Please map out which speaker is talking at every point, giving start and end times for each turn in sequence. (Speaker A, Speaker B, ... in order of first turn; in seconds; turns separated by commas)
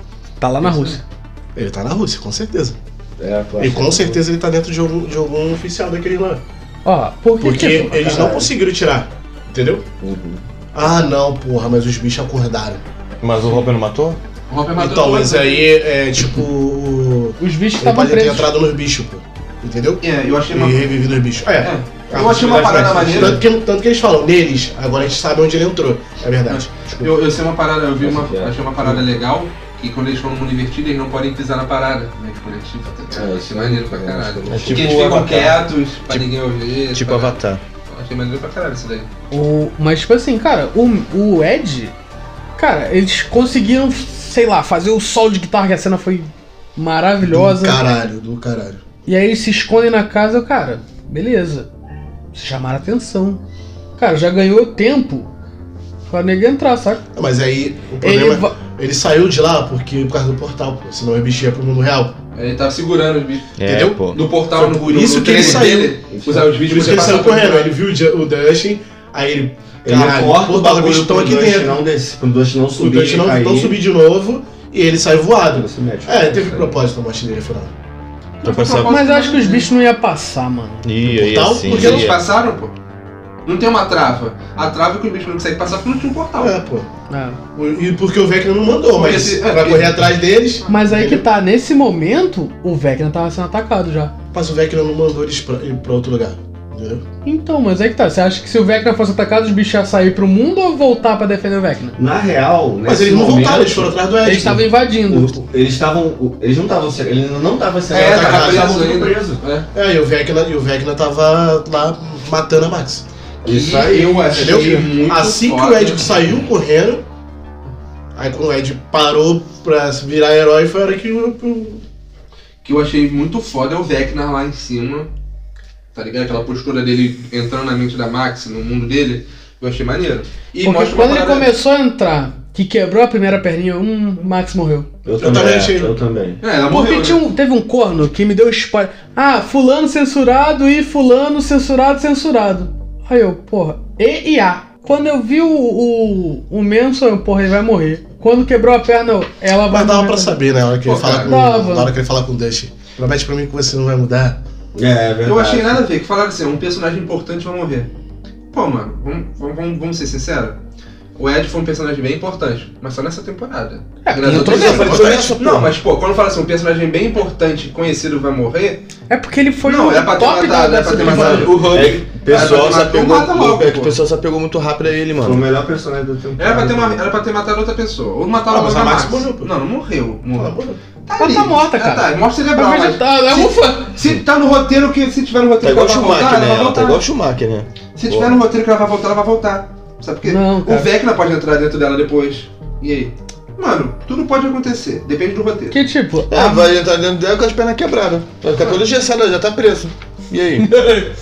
Speaker A: 0.4-1.0, Speaker B: 0.6-0.9, Speaker C: 1.5-2.8, Speaker B: 3.2-4.2, Speaker C: 3.6-6.4, Speaker A: 6.8-8.1, Speaker C: 7.4-9.9, Speaker B: 7.8-8.5, Speaker B: 10.0-10.4, Speaker C: 10.7-12.8, Speaker D: 13.2-14.2, Speaker E: 14.5-15.8, Speaker C: 14.8-27.1, Speaker A: 17.4-18.5, Speaker E: 20.0-20.9, Speaker E: 21.6-23.4, Speaker B: 22.9-23.4, Speaker E: 26.5-39.1, Speaker B: 28.0-29.1, Speaker B: 33.1-35.0, Speaker D: 34.5-36.3, Speaker D: 36.9-37.6, Speaker A: 39.3-41.9, Speaker A: 42.6-47.8, Speaker C: 47.2-48.8, Speaker A: 49.0-51.7, Speaker A: 52.3-53.4, Speaker A: 54.0-55.3, Speaker A: 56.1-57.0, Speaker C: 57.1-62.1, Speaker A: 58.0-58.5, Speaker E: 62.3-63.6, Speaker D: 63.6-64.2, Speaker C: 63.6-66.0, Speaker E: 64.1-67.7, Speaker B: 65.4-67.1, Speaker C: 66.6-71.8, Speaker B: 69.8-73.8, Speaker C: 72.8-77.7, Speaker B: 75.5-76.8, Speaker E: 78.4-79.7, Speaker D: 78.4-79.0, Speaker A: 78.7-80.8, Speaker D: 80.8-82.2, Speaker C: 81.0-82.1, Speaker E: 81.7-82.7, Speaker E: 83.4-86.6, Speaker C: 86.4-86.9, Speaker A: 87.1-87.4, Speaker C: 87.5-91.2, Speaker E: 88.9-90.1, Speaker A: 90.7-94.1, Speaker C: 94.3-97.0, Speaker A: 97.2-102.0, Speaker B: 102.0-104.0, Speaker C: 102.8-104.6, Speaker A: 104.2-105.4, Speaker B: 105.0-109.4, Speaker C: 107.9-108.9, Speaker E: 107.9-109.7, Speaker C: 109.7-113.0, Speaker B: 113.4-114.5, Speaker E: 113.4-116.2, Speaker C: 114.3-117.0, Speaker C: 118.2-121.8, Speaker E: 122.6-125.1, Speaker E: 125.9-131.5, Speaker A: 130.6-134.9, Speaker B: 135.0-136.4, Speaker C: 135.2-135.9, Speaker E: 136.4-137.2, Speaker A: 136.7-150.4, Speaker C: 149.7-154.4, Speaker E: 150.8-151.3, Speaker A: 151.2-151.9, Speaker B: 154.7-155.8, Speaker E: 155.2-157.9, Speaker E: 158.5-160.6, Speaker E: 161.2-168.8, Speaker A: 164.0-165.1, Speaker D: 164.2-165.8, Speaker A: 169.1-171.6, Speaker E: 169.6-173.9, Speaker D: 171.0-175.5, Speaker B: 171.0-172.8, Speaker B: 175.2-177.1, Speaker E: 176.4-187.0, Speaker C: 178.4-179.5, Speaker C: 180.3-180.8, Speaker A: 181.2-184.0, Speaker D: 185.6-188.4, Speaker E: 187.9-195.8, Speaker A: 190.2-190.9, Speaker A: 195.7-196.7, Speaker D: 196.3-200.7, Speaker A: 200.7-201.1